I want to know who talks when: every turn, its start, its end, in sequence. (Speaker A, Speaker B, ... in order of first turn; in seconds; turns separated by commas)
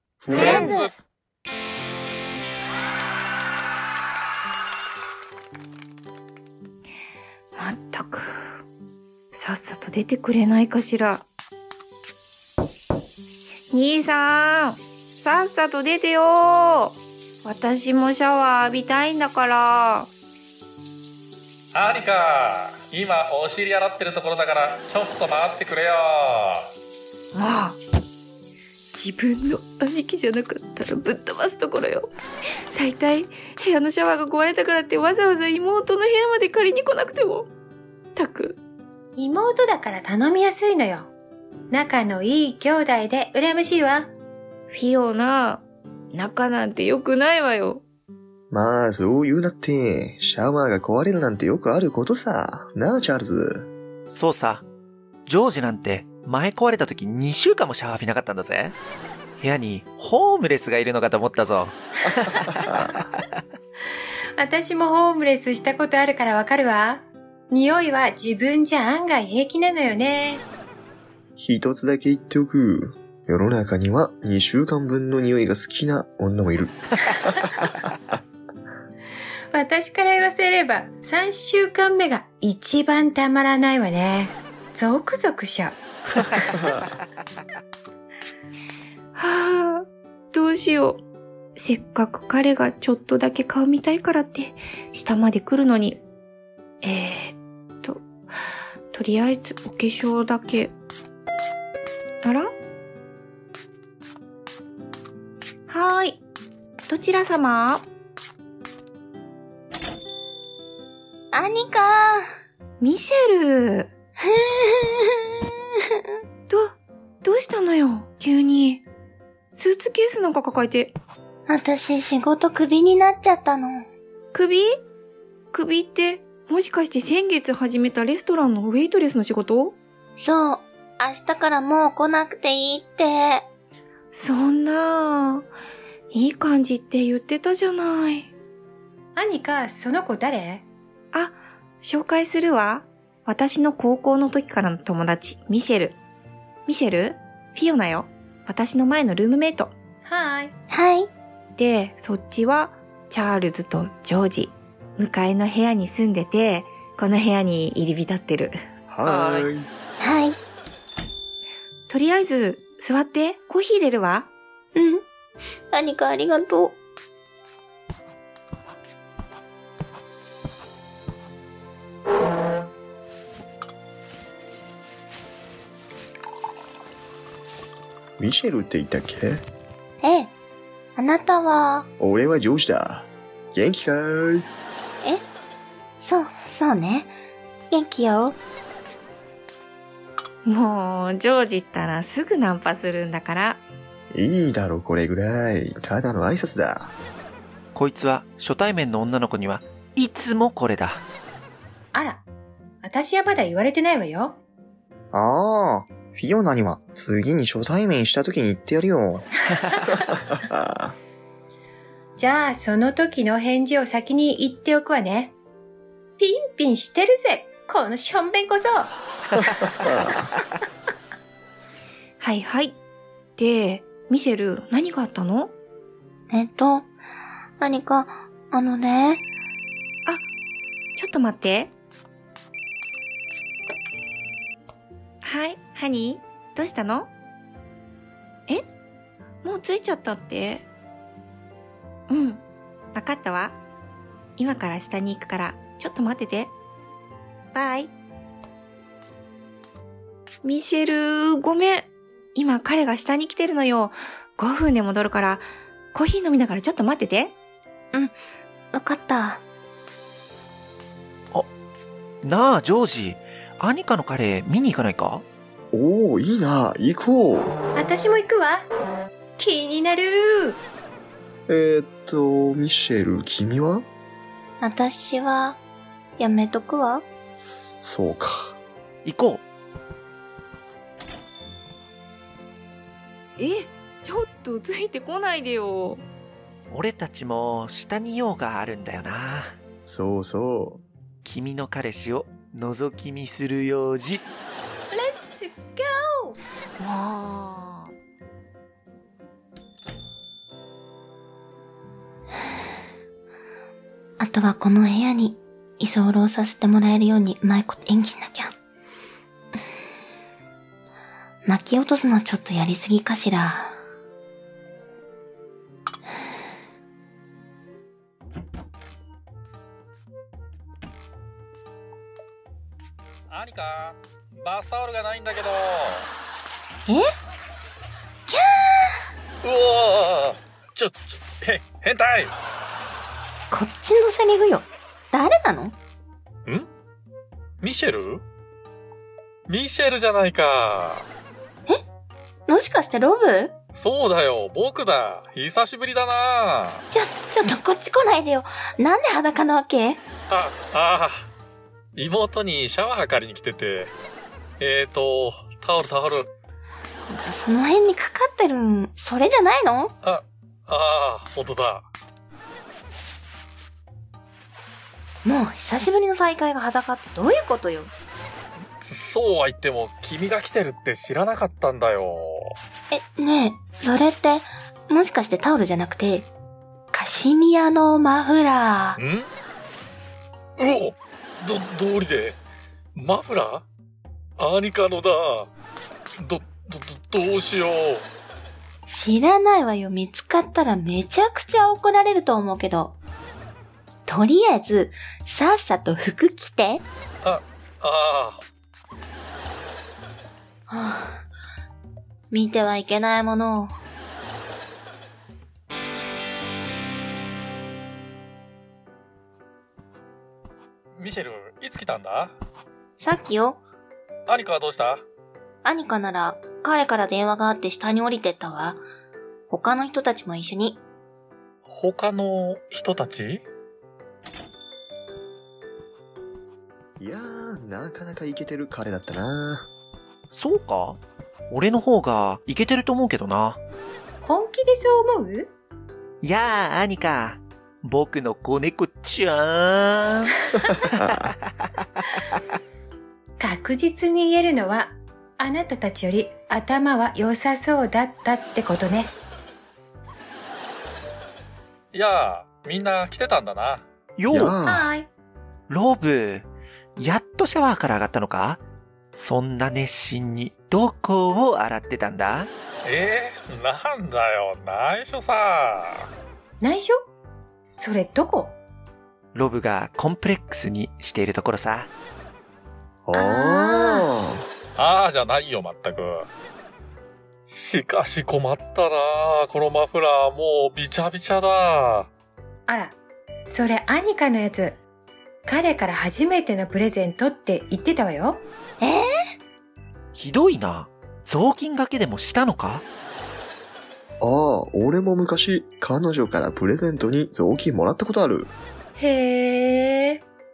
Speaker A: 0.3-0.7, Speaker B: 0.3-1.0, Speaker C: 0.3-0.9, Speaker D: 7.5-8.6, Speaker D: 9.3-11.3, Speaker D: 13.7-20.1, Speaker C: 21.7-26.7, Speaker D: 27.3-27.8, Speaker D: 28.9-32.1, Speaker D: 32.8-37.5, Speaker D: 38.2-38.6, Speaker E: 39.2-41.1, Speaker E: 41.7-44.1, Speaker D: 44.7-47.8, Speaker A: 48.5-53.7, Speaker F: 54.1-54.6, Speaker F: 55.3-58.8, Speaker F: 59.4-62.6, Speaker E: 64.4-70.5, Speaker A: 71.4-76.8, Speaker E: 79.5-86.5, Speaker D: 89.2-91.0, Speaker D: 91.6-96.0, Speaker D: 96.8-98.1, Speaker D: 98.9-100.7, Speaker D: 102.2-102.5, Speaker D: 105.7-106.2, Speaker D: 106.9-107.9, Speaker B: 111.3-112.2, Speaker D: 112.8-113.9, Speaker B: 114.2-115.3, Speaker D: 116.5-118.8, Speaker D: 119.5-121.0, Speaker B: 121.5-123.8, Speaker D: 124.3-124.7, Speaker D: 125.5-129.8, Speaker B: 130.2-133.5, Speaker D: 134.1-135.5, Speaker D: 136.1-138.3, Speaker E: 139.2-140.7, Speaker D: 141.1-146.0, Speaker D: 146.7-149.8, Speaker E: 150.1-150.5, Speaker B: 150.7-151.1, Speaker D: 151.6-159.5, Speaker A: 158.9-159.7, Speaker B: 160.0-160.4, Speaker D: 161.9-164.3, Speaker B: 164.8-165.1, Speaker B: 165.7-166.8, Speaker A: 178.2-179.4, Speaker B: 180.0-180.3, Speaker B: 181.0-181.9, Speaker A: 182.0-184.5, Speaker B: 186.0-187.2, Speaker B: 187.7-188.4, Speaker D: 190.5-193.6, Speaker A: 194.1-196.9, Speaker F: 197.8-201.1, Speaker E: 201.9-202.2, Speaker E: 202.8-204.4, Speaker A: 205.1-209.3, Speaker A: 209.9-211.0, Speaker E: 212.2-215.3, Speaker E: 216.2-218.9, Speaker A: 219.8-220.3, Speaker D: 222.2-222.8, Speaker D: 223.4-225.5, Speaker B: 226.3-226.9, Speaker B: 227.6-229.3, Speaker D: 231.0-231.7, Speaker D: 235.2-237.1, Speaker D: 239.4-240.7, Speaker D: 242.1-242.4, Speaker D: 242.9-243.6, Speaker D: 244.4-246.5, Speaker D: 247.5-247.9, Speaker D: 250.4-257.4, Speaker B: 258.7-259.4, Speaker F: 262.2-265.2, Speaker A: 265.7-267.6, Speaker E: 267.7-268.7, Speaker E: 269.4-270.6, Speaker A: 271.5-273.9, Speaker B: 274.6-275.6, Speaker B: 276.2-277.1, Speaker A: 277.8-278.6, Speaker F: 279.1-279.4, Speaker D: 283.4-286.0, Speaker F: 286.7-289.5, Speaker A: 289.9-290.8, Speaker F: 291.2-294.2, Speaker E: 294.9-296.4, Speaker D: 296.8-297.9, Speaker B: 304.2-308.5, Speaker B: 311.5-313.8, Speaker C: 323.3-326.1, Speaker B: 328.3-328.9, Speaker C: 329.4-332.4, Speaker B: 333.5-335.8, Speaker C: 337.6-338.2, Speaker C: 339.5-341.1, Speaker B: 342.5-343.5, Speaker C: 343.8-346.9, Speaker B: 346.9-350.0, Speaker C: 350.3-351.3, Speaker C: 352.0-353.9, Speaker C: 354.6-356.3, Speaker B: 357.1-359.9, Speaker C: 360.0-361.9, Speaker B: 365.2-367.9, Speaker C: 368.9-372.5, Speaker B: 372.9-376.3, Speaker B: 376.9-379.0, Speaker C: 379.0-379.3, Speaker C: 380.6-382.4, Speaker C: 383.0-383.6, Speaker C: 384.4-385.5, Speaker C: 386.2-388.1, Speaker B: 388.9-393.0, Speaker B: 394.1-396.9, Speaker C: 397.2-398.4, Speaker B: 400.7-401.3, Speaker B: 402.3-403.7, Speaker C: 411.0-412.4, Speaker B: 413.0-413.6, Speaker C: 414.3-415.0, Speaker B: 415.6-418.8, Speaker B: 419.5-420.8, Speaker C: 421.7-423.4, Speaker A: 427.0-429.7, Speaker F: 430.3-433.6, Speaker E: 434.2-435.5, Speaker F: 436.2-440.4, Speaker F: 440.9-442.1, Speaker E: 443.4-449.1, Speaker C: 451.9-453.9, Speaker F: 454.2-454.6, Speaker A: 454.3-454.9, Speaker E: 454.7-455.1, Speaker F: 455.7-458.6, Speaker F: 459.1-462.5, Speaker C: 462.9-466.1, Speaker E: 466.6-467.0, Speaker E: 467.7-468.6, Speaker F: 469.3-471.9, Speaker A: 473.1-474.5, Speaker E: 473.1-474.1, Speaker C: 474.8-476.3, Speaker C: 477.5-482.1, Speaker E: 482.7-483.0, Speaker E: 483.5-484.8, Speaker E: 485.4-488.4, Speaker B: 488.8-489.1, Speaker F: 490.1-492.9, Speaker A: 494.2-498.5, Speaker E: 499.0-500.2